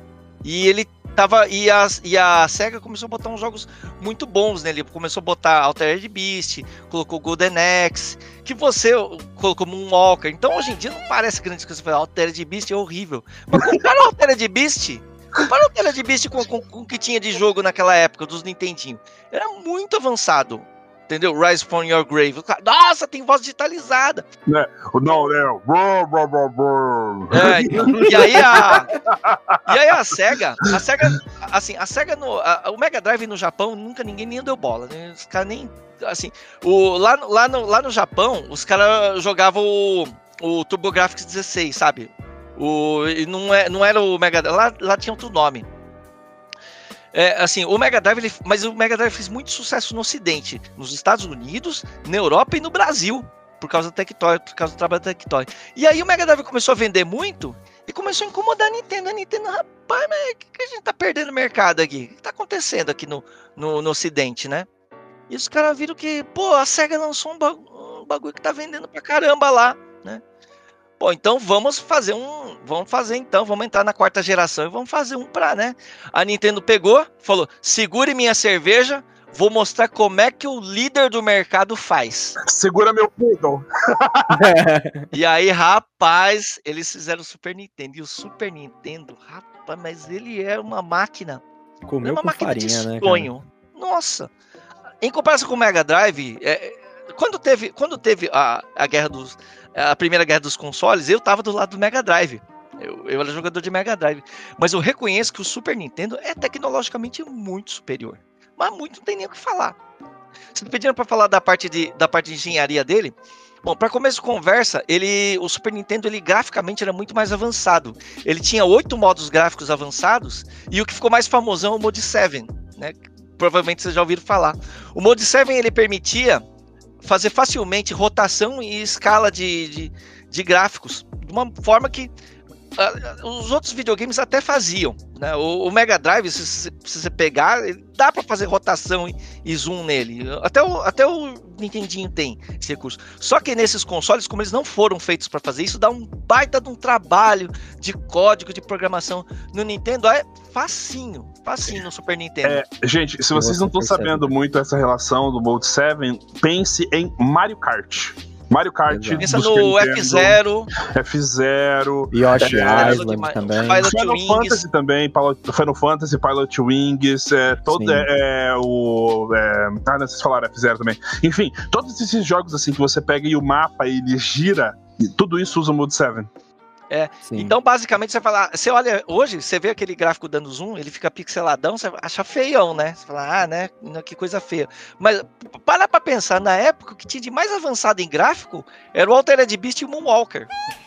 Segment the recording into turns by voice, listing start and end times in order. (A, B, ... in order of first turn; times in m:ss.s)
0:00.4-0:24.2 A
0:24.5-0:29.8 B
0:27.3-0:28.9 A
0:27.8-0:28.5 C
0:29.7-0:45.7 A
0:47.1-1:04.7 A
1:05.3-1:10.2 A
1:11.0-1:22.4 A
1:22.4-1:24.4 B
1:24.3-1:25.1 C
1:25.1-1:31.4 A
1:31.9-1:33.3 C
1:32.0-1:34.3 A
1:35.0-1:49.8 A
1:50.6-2:06.4 A
2:07.0-2:12.1 A
2:12.8-2:32.6 A
2:32.4-2:40.4 B
2:33.3-2:34.3 C
2:38.9-2:39.3 C
2:39.2-2:40.7 A
2:40.9-2:43.0 B
2:42.1-2:43.9 C
2:42.4-2:44.6 A
2:43.8-2:56.3 B
2:47.7-2:48.1 C
2:56.9-3:10.5 A
2:57.3-2:57.6 C